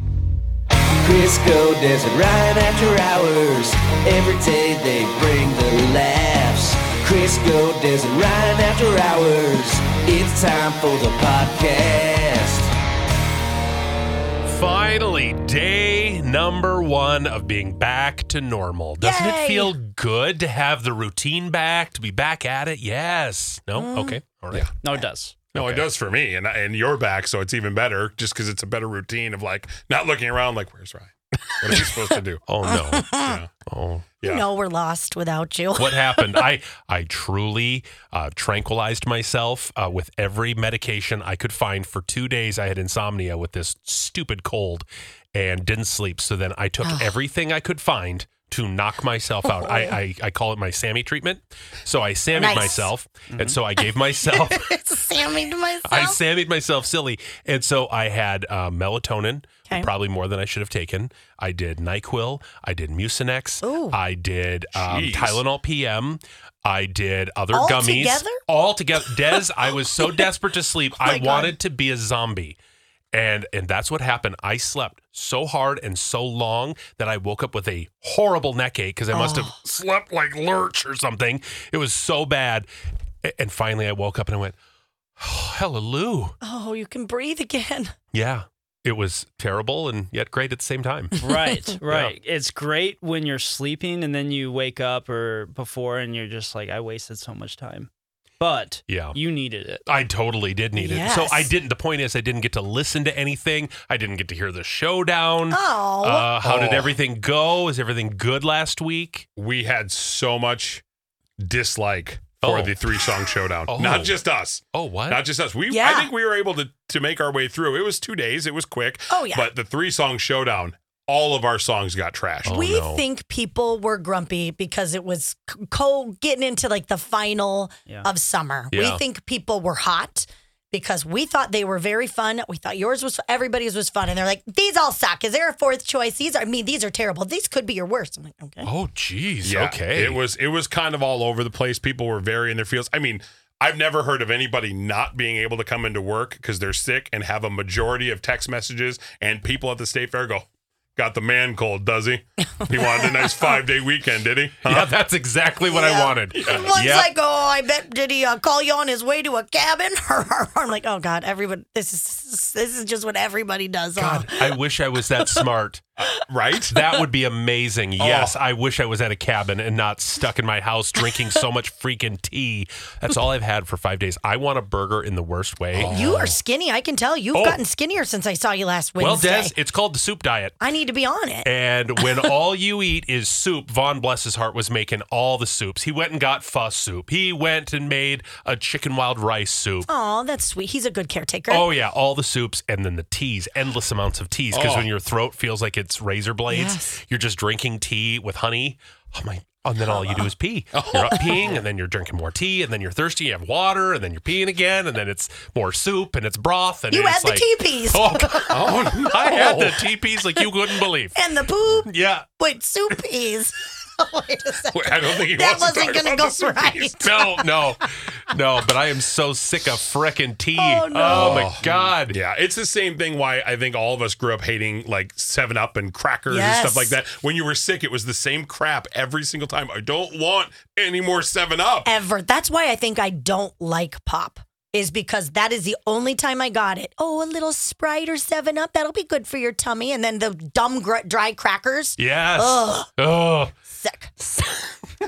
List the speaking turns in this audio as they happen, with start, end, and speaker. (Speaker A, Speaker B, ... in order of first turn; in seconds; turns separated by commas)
Speaker A: 1.0-12.7, Speaker B: 14.4-24.7, Speaker C: 19.0-19.7, Speaker C: 23.8-24.2, Speaker D: 24.8-25.4, Speaker B: 25.5-25.9, Speaker E: 25.5-32.4, Speaker B: 32.5-34.1, Speaker C: 32.6-33.4, Speaker E: 33.2-33.5, Speaker E: 34.2-34.5, Speaker C: 34.2-36.4, Speaker B: 35.8-54.8, Speaker C: 49.5-49.9, Speaker C: 52.4-52.9, Speaker C: 54.2-56.2, Speaker B: 55.9-72.6, Speaker C: 63.6-64.0, Speaker E: 64.7-65.4, Speaker C: 67.5-68.4, Speaker C: 70.0-70.3, Speaker C: 71.0-71.5, Speaker B: 73.1-82.7, Speaker C: 79.1-79.5, Speaker B: 83.2-84.5, Speaker B: 85.2-86.3, Speaker C: 86.4-87.9, Speaker B: 88.1-91.2, Speaker D: 91.2-97.9, Speaker B: 91.7-92.1, Speaker D: 98.4-99.8, Speaker B: 98.9-99.2, Speaker B: 99.8-109.3, Speaker C: 100.8-101.5, Speaker C: 105.5-106.3, Speaker E: 106.4-106.9, Speaker E: 109.3-110.8, Speaker E: 111.4-122.6, Speaker B: 112.4-112.7, Speaker B: 113.7-114.2, Speaker B: 114.7-115.2, Speaker C: 115.7-116.1, Speaker C: 119.1-119.5, Speaker B: 122.4-123.0, Speaker C: 122.5-138.7, Speaker B: 128.7-129.0, Speaker B: 138.6-140.2, Speaker E: 139.4-154.9, Speaker C: 152.6-153.2, Speaker B: 154.6-157.1, Speaker C: 155.6-164.4, Speaker E: 156.3-156.7, Speaker B: 164.0-165.8, Speaker E: 166.2-166.8, Speaker B: 166.7-175.9, Speaker E: 168.0-168.3, Speaker E: 175.7-176.4, Speaker C: 175.9-179.5, Speaker B: 177.3-177.6, Speaker B: 179.0-180.6, Speaker C: 180.6-181.5, Speaker B: 181.4-189.9, Speaker C: 189.9-191.7, Speaker B: 191.5-212.3, Speaker E: 194.5-194.9, Speaker C: 196.5-197.0, Speaker E: 200.7-201.6, Speaker C: 206.9-208.8, Speaker E: 208.5-209.8, Speaker C: 211.1-217.6, Speaker E: 214.7-217.0, Speaker B: 217.0-222.2, Speaker C: 220.6-221.5, Speaker E: 221.0-231.9, Speaker C: 226.3-227.0, Speaker C: 231.8-242.9, Speaker B: 242.0-243.5, Speaker C: 243.6-244.5